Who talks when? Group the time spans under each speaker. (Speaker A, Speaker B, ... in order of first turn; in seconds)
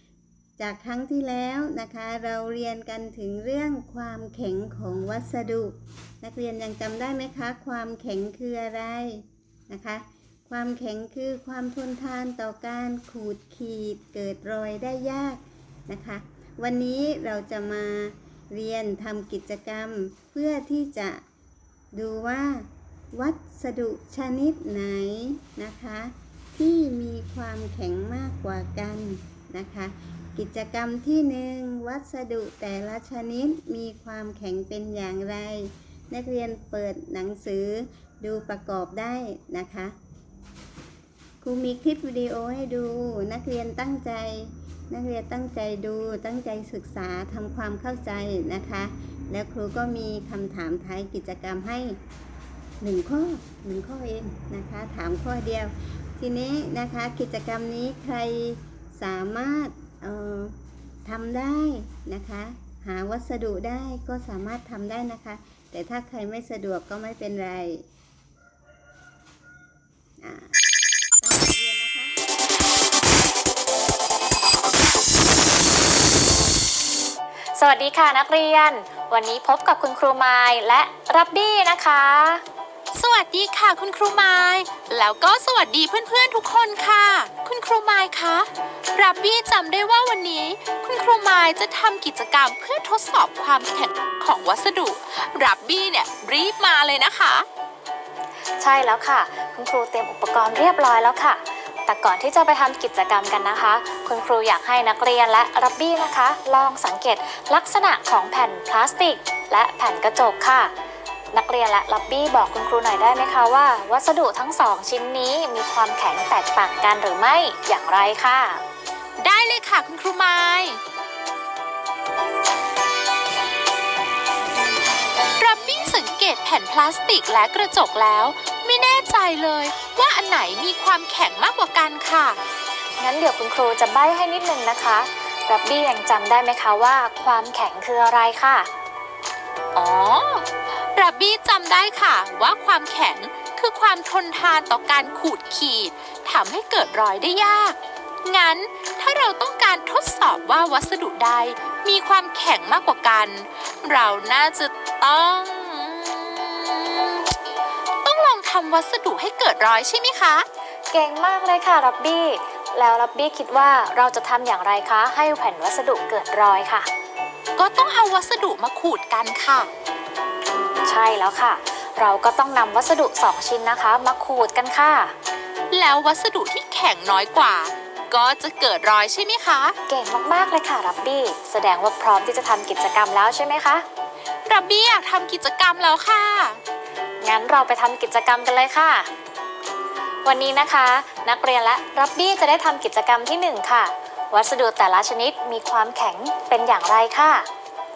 Speaker A: 0.6-21.2, 21.9-40.0, 41.4-52.0, 52.8-67.8, 70.2-70.6, 71.2-72.2, 124.4-126.2
Speaker B: 77.6-82.4, 98.6-110.7, 111.3-118.6, 133.0-138.7, 160.9-166.9, 170.5-175.1, 179.9-183.8, 187.2-189.1, 190.2-197.5
Speaker C: 82.9-97.5, 119.2-120.8, 125.4-132.4, 139.8-157.3, 158.0-160.5, 167.6-169.7, 175.7-179.8, 184.5-186.6